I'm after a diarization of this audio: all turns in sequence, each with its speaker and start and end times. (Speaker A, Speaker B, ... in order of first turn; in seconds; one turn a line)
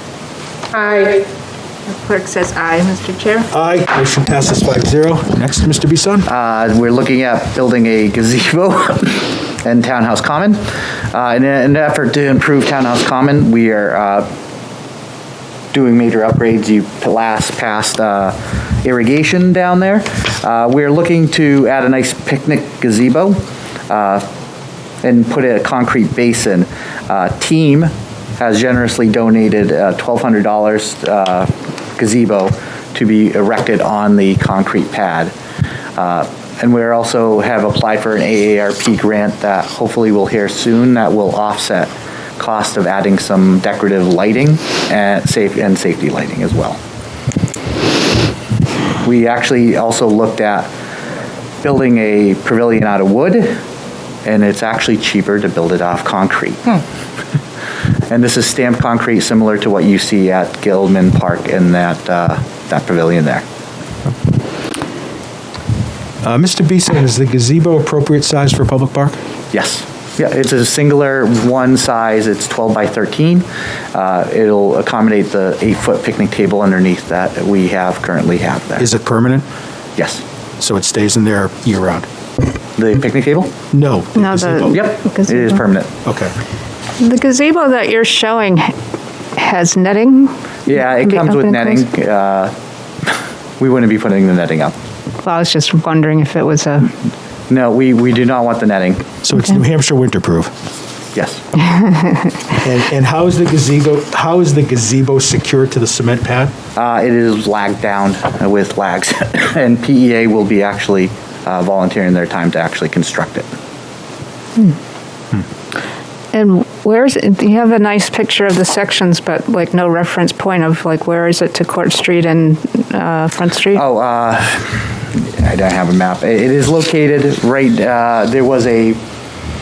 Speaker A: 0.7-1.2
Speaker A: 1.9-3.5
Speaker B: 3.5-6.3
Speaker C: 6.3-14.3
Speaker C: 15.7-24.3
Speaker C: 25.0-35.3
Speaker C: 36.0-46.8
Speaker C: 49.0-50.7
Speaker C: 51.6-53.6
Speaker C: 54.2-56.8
Speaker C: 58.1-63.4
Speaker B: 66.2-69.2
Speaker C: 69.5-78.9
Speaker B: 78.8-79.5
Speaker C: 80.0-80.2
Speaker B: 80.6-82.1
Speaker C: 82.8-83.5
Speaker B: 83.7-84.8
Speaker A: 84.2-85.6
Speaker C: 84.7-85.9
Speaker B: 86.0-86.3
Speaker A: 87.0-88.7
Speaker A: 89.4-91.9
Speaker C: 90.7-92.5
Speaker C: 93.1-94.7
Speaker A: 95.2-96.9
Speaker C: 97.5-99.1
Speaker B: 99.2-100.5
Speaker C: 101.2-101.4
Speaker A: 101.8-102.1
Speaker B: 102.6-106.5
Speaker C: 106.8-113.5
Speaker A: 116.3-123.8
Speaker C: 123.7-129.0